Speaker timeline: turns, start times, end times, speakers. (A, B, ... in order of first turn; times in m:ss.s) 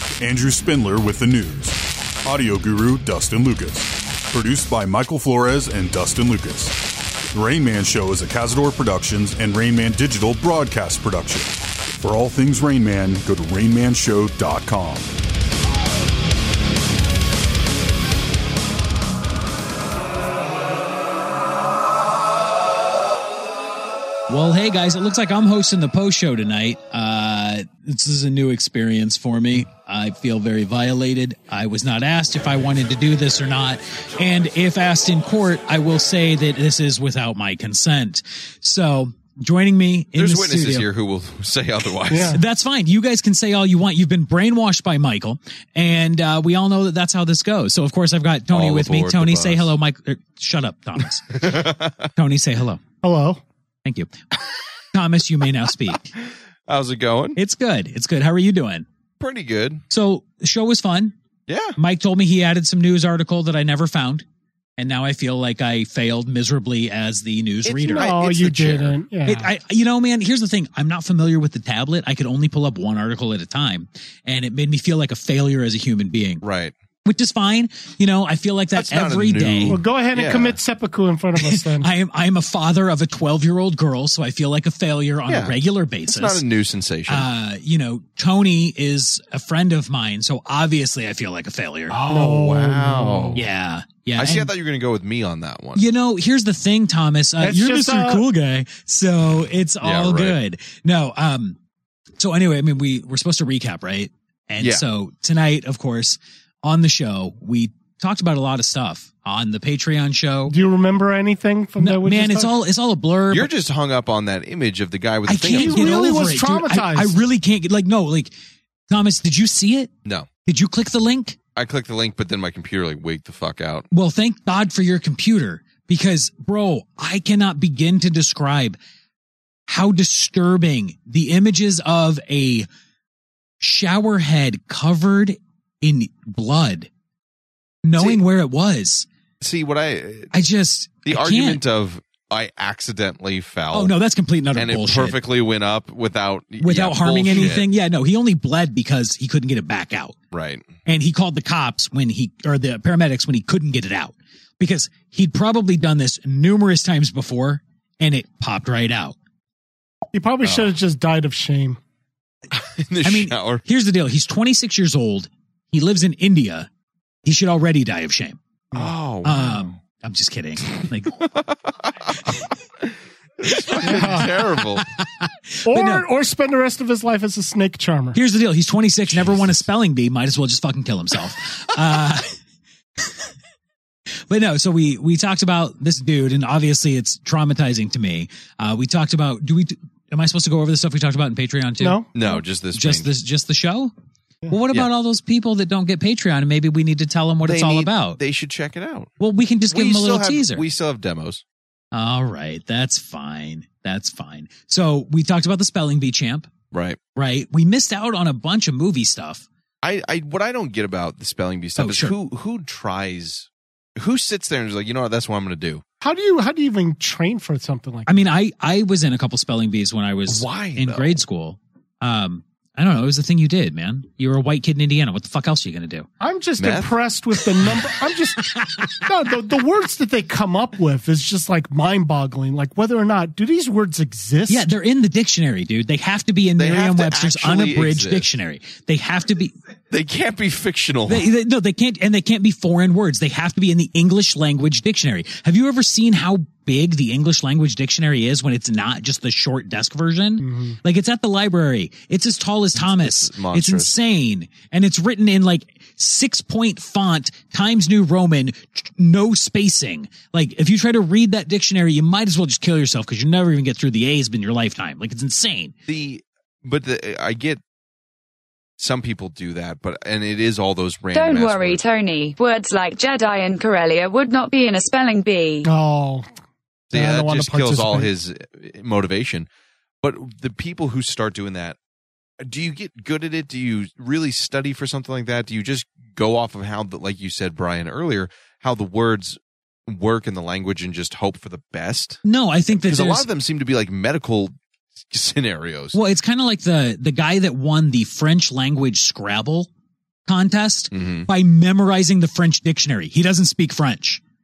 0:00.2-0:06.8 A
0:07.3-0:15.1 A
0:24.3-0:40.9 B
0:40.2-0:42.4 C
0:42.1-0:42.4 D
0:42.3-0:51.4 B
0:48.5-0:49.7 C
0:51.3-0:52.1 C
0:52.2-0:52.8 B
0:53.0-0:53.4 D
0:53.8-0:54.1 B
0:54.9-0:56.1 B
0:56.7-0:57.4 C
0:57.4-0:58.8 B
0:59.2-0:59.8 C
0:59.9-1:01.2 B
1:01.5-1:01.8 C
1:01.8-1:04.2 B
1:04.8-1:08.1 B
1:07.6-1:09.0 C
1:07.9-1:09.5 D
1:09.2-1:16.4 B
1:16.4-1:16.7 C
1:17.0-1:19.8 B
1:18.8-1:20.6 C
1:19.7-1:21.9 D
1:21.4-1:26.4 B
1:25.3-1:25.6 C
1:26.1-1:27.3 C
1:27.1-1:32.0 B
1:31.9-1:33.4 C
1:32.0-1:33.4 D
1:33.3-1:34.5 B
1:34.2-1:35.8 C
1:35.7-1:41.6 B
1:37.4-1:38.2 D
1:39.8-1:40.4 C
1:42.2-1:50.6 B
1:50.5-1:52.5 D
1:51.8-1:53.5 B
1:53.3-1:56.1 C
1:55.3-1:58.3 B
1:55.5-1:57.2 D
1:58.9-1:59.9 B
2:00.4-2:01.4 B
2:01.6-2:03.8 C
2:03.9-2:08.8 B
2:09.7-2:12.7 B
2:13.6-2:16.9 B
2:17.8-2:19.1 B
2:19.4-2:20.3 C
2:20.3-2:21.6 B
2:21.1-2:23.9 C
2:23.7-2:25.2 B
2:24.6-2:27.7 C
2:26.6-2:30.2 B
2:30.3-2:30.6 C
2:30.8-2:39.2 B
2:40.1-2:41.8 D
2:40.4-2:40.7 C
2:42.6-2:43.6 C
2:43.0-2:46.7 B
2:47.2-2:48.4 B
2:48.7-2:49.8 C
2:49.2-2:51.2 B
2:51.2-2:54.8 C
2:53.5-2:56.1 B
2:53.8-2:54.3 D
2:55.6-2:58.2 D
2:58.1-3:02.3 B
2:59.1-2:59.6 C
3:04.3-3:12.2 B
3:11.8-3:12.1 D
3:12.1-3:13.1 C
3:12.7-3:13.9 B
3:14.5-3:18.2 B
3:17.4-3:19.1 C
3:19.2-3:20.6 B
3:19.7-3:21.4 C
3:21.9-3:26.5 B
3:26.7-3:27.0 C
3:27.2-3:29.4 B
3:29.8-3:35.8 C
3:31.8-3:32.2 B
3:36.0-3:38.2 D
3:38.1-3:46.1 B
3:40.3-3:41.2 C
3:46.2-3:48.5 D
3:46.6-3:46.9 C
3:48.4-3:48.9 B
3:49.0-3:54.7 D
3:54.5-3:59.6 B
3:56.6-3:58.3 C
3:59.9-4:01.3 C
4:01.1-4:25.7 B
4:10.4-4:10.8 D
4:12.7-4:14.0 C
4:25.9-4:27.6 C
4:28.8-4:31.8 C
4:31.1-4:35.7 E
4:35.6-4:36.3 D
4:36.9-4:39.5 C
4:36.9-4:38.1 D
4:40.0-4:41.8 C
4:42.4-4:52.2 C
4:52.2-4:53.3 B
4:52.7-4:54.6 C
4:55.1-4:56.0 C
4:55.9-4:59.7 B
5:00.3-5:04.2 B
5:00.9-5:01.3 C